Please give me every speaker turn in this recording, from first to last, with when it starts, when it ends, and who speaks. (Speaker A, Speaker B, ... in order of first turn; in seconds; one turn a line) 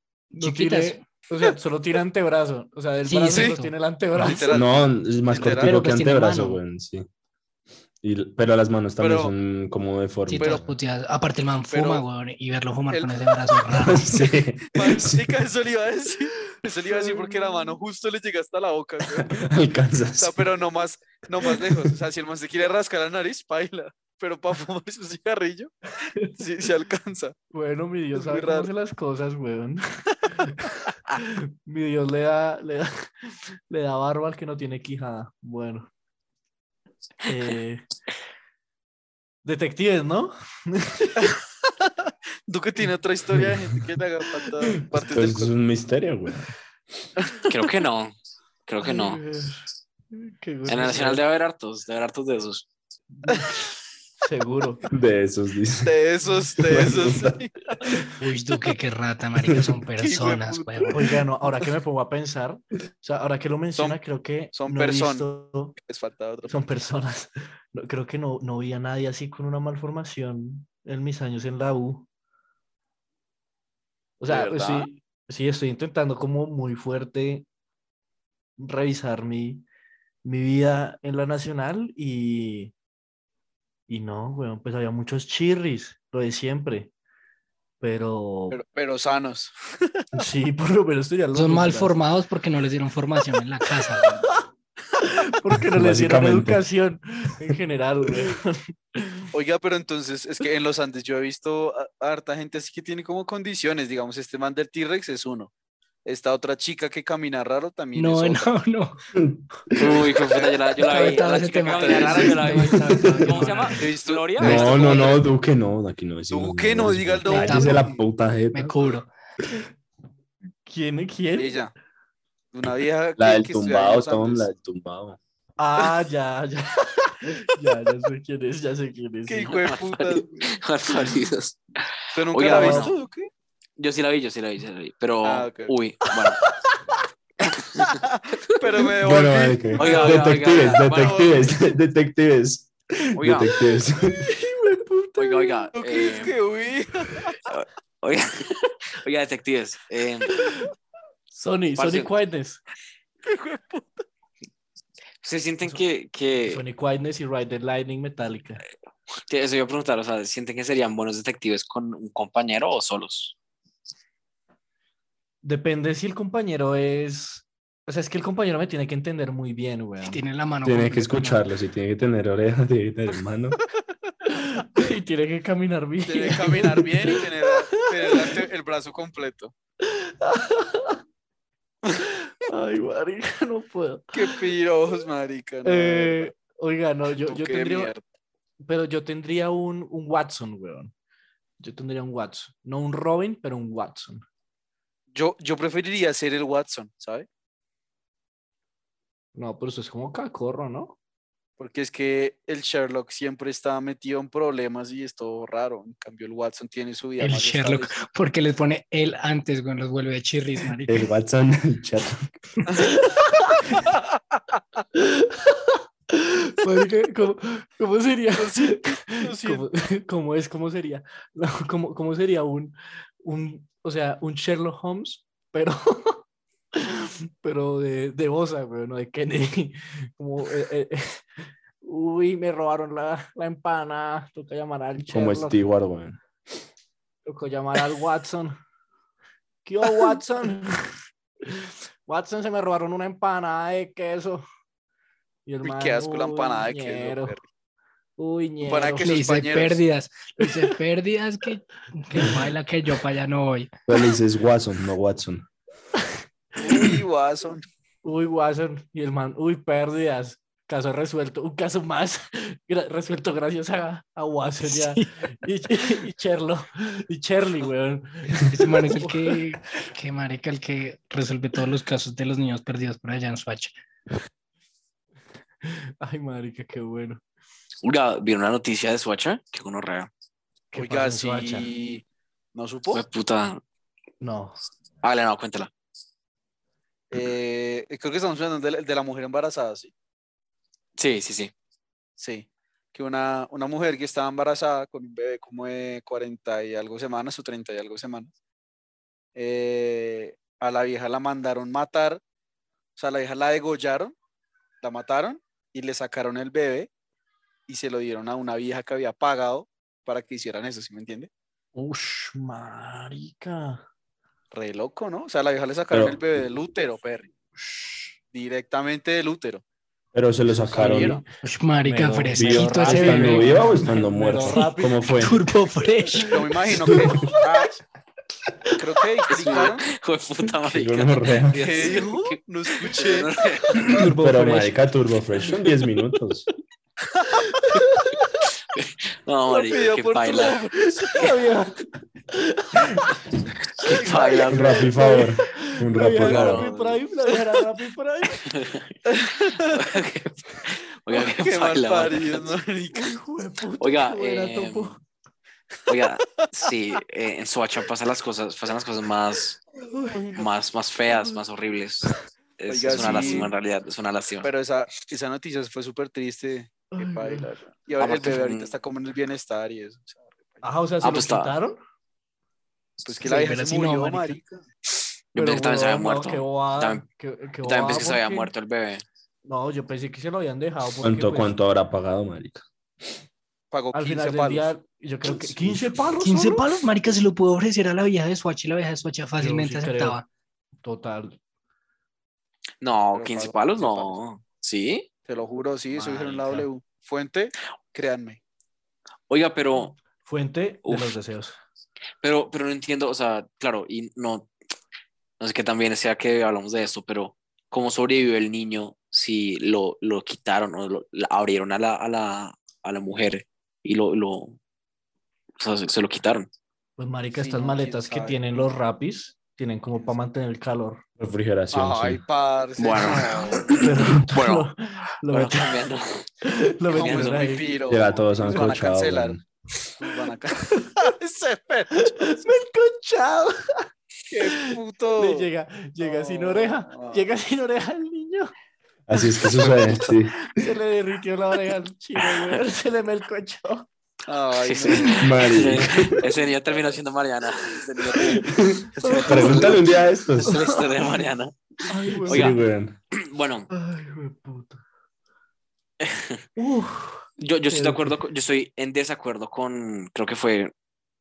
Speaker A: 0.3-1.0
Speaker B: 0.3-4.6
Speaker A: 3.0-3.7
Speaker C: 3.3-3.5
Speaker C: 4.2-5.7
Speaker D: 4.5-7.1
Speaker A: 5.4-6.6
Speaker D: 8.0-10.7
Speaker C: 9.0-9.3
Speaker A: 10.3-14.3
Speaker C: 10.4-10.6
Speaker C: 11.7-12.0
Speaker C: 12.9-13.4
Speaker D: 13.7-15.4
Speaker C: 14.7-19.5
Speaker B: 16.4-17.7
Speaker D: 19.1-20.5
Speaker C: 20.2-25.7
Speaker C: 26.4-27.3
Speaker B: 27.5-29.8
Speaker C: 28.1-28.7
Speaker B: 30.4-35.9
Speaker B: 37.2-37.9
Speaker B: 39.4-41.3
Speaker C: 41.2-41.9
Speaker C: 42.5-45.5
Speaker D: 43.4-43.8
Speaker D: 44.8-46.5
Speaker C: 47.2-47.4
Speaker E: 47.5-48.1
Speaker E: 48.6-49.2
Speaker B: 48.8-51.2
Speaker E: 50.6-52.7
Speaker B: 53.1-53.6
Speaker B: 54.2-54.8
Speaker D: 54.9-55.9
Speaker C: 55.8-57.8
Speaker D: 56.5-57.4
Speaker A: 58.2-61.0
Speaker C: 60.0-61.1
Speaker B: 60.9-65.8
Speaker C: 64.5-66.5
Speaker B: 66.5-72.0
Speaker B: 74.2-77.5
Speaker C: 74.3-74.9
Speaker B: 78.6-79.6
Speaker B: 80.2-82.7
Speaker B: 83.9-86.9
Speaker B: 87.8-88.6
Speaker C: 88.5-90.0
Speaker B: 90.2-92.0
Speaker A: 91.3-94.3
Speaker B: 95.0-99.3
Speaker D: 95.7-96.6
Speaker C: 99.3-105.5
Speaker C: 106.0-108.5
Speaker A: 108.0-109.0
Speaker D: 109.1-110.0
Speaker E: 109.8-115.2
Speaker C: 109.8-112.4
Speaker A: 110.9-113.8
Speaker D: 112.7-113.3
Speaker C: 113.8-115.2
Speaker D: 114.4-118.9
Speaker C: 116.3-118.0
Speaker A: 117.3-118.0
Speaker A: 118.5-119.1
Speaker B: 120.7-121.6
Speaker C: 121.3-121.7
Speaker C: 122.5-124.5
Speaker D: 123.2-125.2
Speaker B: 125.6-129.6
Speaker C: 129.3-130.6
Speaker E: 129.5-133.0
Speaker C: 132.1-133.3
Speaker B: 132.4-132.9
Speaker E: 133.8-136.4
Speaker C: 135.2-135.7
Speaker C: 137.8-141.6
Speaker D: 139.0-144.3
Speaker E: 139.8-141.5
Speaker E: 143.1-143.5
Speaker B: 144.2-145.7
Speaker E: 145.2-146.4
Speaker C: 145.7-147.3
Speaker E: 147.4-150.3
Speaker B: 150.4-150.7
Speaker B: 151.3-152.6
Speaker E: 151.8-152.1
Speaker C: 153.2-154.0
Speaker E: 155.2-156.6
Speaker B: 156.4-158.6
Speaker E: 159.3-163.3
Speaker B: 165.4-170.2
Speaker A: 170.0-171.4
Speaker D: 170.6-173.6
Speaker B: 174.3-178.4
Speaker C: 176.1-179.5
Speaker B: 179.8-181.0
Speaker B: 182.5-184.5
Speaker C: 184.1-186.3
Speaker B: 185.6-187.9
Speaker C: 187.3-188.0
Speaker B: 188.6-190.9
Speaker B: 191.6-194.2
Speaker C: 195.1-197.3
Speaker B: 199.3-200.9
Speaker C: 201.6-208.0
Speaker A: 207.2-211.1
Speaker D: 210.9-212.3
Speaker C: 212.7-213.0
Speaker B: 212.8-213.7
Speaker C: 213.7-214.6
Speaker B: 214.9-226.2
Speaker C: 218.3-219.7
Speaker B: 226.7-231.2
Speaker B: 231.8-235.6
Speaker D: 235.0-236.2
Speaker B: 237.2-238.6
Speaker B: 239.6-240.8
Speaker B: 241.4-244.4
Speaker B: 245.4-247.3
Speaker C: 245.6-247.4
Speaker B: 248.2-249.1
Speaker C: 248.6-249.8
Speaker A: 249.0-253.7
Speaker B: 252.1-252.5
Speaker D: 253.9-255.4
Speaker C: 256.6-257.6
Speaker B: 258.0-269.4
Speaker A: 264.6-265.1
Speaker A: 268.4-273.7
Speaker B: 275.6-277.2
Speaker E: 277.8-280.1
Speaker B: 280.7-281.7
Speaker C: 280.7-283.0
Speaker E: 282.9-283.6
Speaker B: 284.2-284.6
Speaker E: 285.0-285.7
Speaker C: 287.1-289.9
Speaker E: 291.0-291.5
Speaker C: 292.2-298.3
Speaker C: 299.3-302.2
Speaker C: 302.9-304.1
Speaker C: 304.8-306.9
Speaker C: 307.7-311.3
Speaker B: 311.7-313.8
Speaker C: 314.5-317.3
Speaker D: 315.9-316.2
Speaker C: 318.3-319.6
Speaker D: 320.1-321.2
Speaker B: 320.7-321.2
Speaker C: 320.8-321.2
Speaker A: 321.4-323.9
Speaker B: 321.8-325.2
Speaker D: 322.3-325.4
Speaker A: 324.4-326.4
Speaker B: 326.1-327.4
Speaker C: 326.3-327.8
Speaker D: 326.9-327.3
Speaker C: 328.8-329.9
Speaker E: 329.3-333.9
Speaker D: 330.7-331.7
Speaker C: 331.5-333.3
Speaker B: 333.8-334.9
Speaker D: 333.9-336.5
Speaker B: 335.4-336.1
Speaker C: 337.1-337.4
Speaker B: 337.5-338.5
Speaker E: 338.7-340.6
Speaker C: 339.5-341.4
Speaker B: 340.9-343.2
Speaker E: 343.8-344.9
Speaker C: 343.9-345.0
Speaker D: 344.5-346.7
Speaker B: 344.9-348.5
Speaker E: 346.2-347.0
Speaker E: 348.4-352.5
Speaker C: 349.1-349.8
Speaker C: 351.1-353.2
Speaker B: 352.9-355.0
Speaker E: 353.8-355.0
Speaker E: 355.9-359.6
Speaker B: 359.8-360.4
Speaker E: 360.3-364.5
Speaker C: 362.7-363.5
Speaker B: 362.9-363.5
Speaker C: 364.4-370.7
Speaker B: 366.9-367.5
Speaker E: 368.0-368.7
Speaker B: 370.6-371.8
Speaker E: 371.0-371.6
Speaker C: 373.0-374.6
Speaker A: 373.2-374.4
Speaker E: 375.3-377.0
Speaker B: 375.4-378.5
Speaker E: 377.6-379.0
Speaker B: 379.4-381.5
Speaker D: 381.0-382.6
Speaker C: 383.7-384.7
Speaker B: 383.9-386.7
Speaker D: 385.5-385.8
Speaker A: 386.2-390.2
Speaker B: 389.4-390.2
Speaker B: 390.8-391.4
Speaker E: 392.8-395.1
Speaker C: 393.1-394.2
Speaker C: 395.2-398.4
Speaker B: 395.9-396.6
Speaker E: 399.3-400.0
Speaker B: 400.2-401.6
Speaker E: 400.9-401.2
Speaker E: 402.2-404.5
Speaker E: 405.4-414.6
Speaker E: 415.6-416.5
Speaker B: 417.0-421.0
Speaker C: 417.3-418.7
Speaker D: 421.2-422.2
Speaker C: 421.7-423.8
Speaker E: 422.8-424.7
Speaker B: 423.7-425.9
Speaker E: 425.3-426.3
Speaker B: 426.4-427.7
Speaker C: 426.9-429.4
Speaker E: 426.9-427.4
Speaker D: 427.9-429.4
Speaker C: 430.0-432.5
Speaker B: 430.6-431.0
Speaker B: 432.1-433.9
Speaker C: 434.3-435.5
Speaker B: 434.4-438.5
Speaker C: 436.0-437.2
Speaker D: 439.1-440.5
Speaker B: 439.1-443.9
Speaker C: 439.5-440.1
Speaker C: 444.3-445.6
Speaker E: 444.6-449.8
Speaker D: 445.2-446.2
Speaker B: 448.1-451.2
Speaker D: 448.6-450.6
Speaker C: 449.0-449.8
Speaker E: 450.4-452.6
Speaker B: 451.9-452.6
Speaker D: 452.2-453.0
Speaker E: 453.1-453.7
Speaker B: 453.7-454.8
Speaker E: 456.0-456.4
Speaker B: 456.6-458.2
Speaker E: 457.4-460.7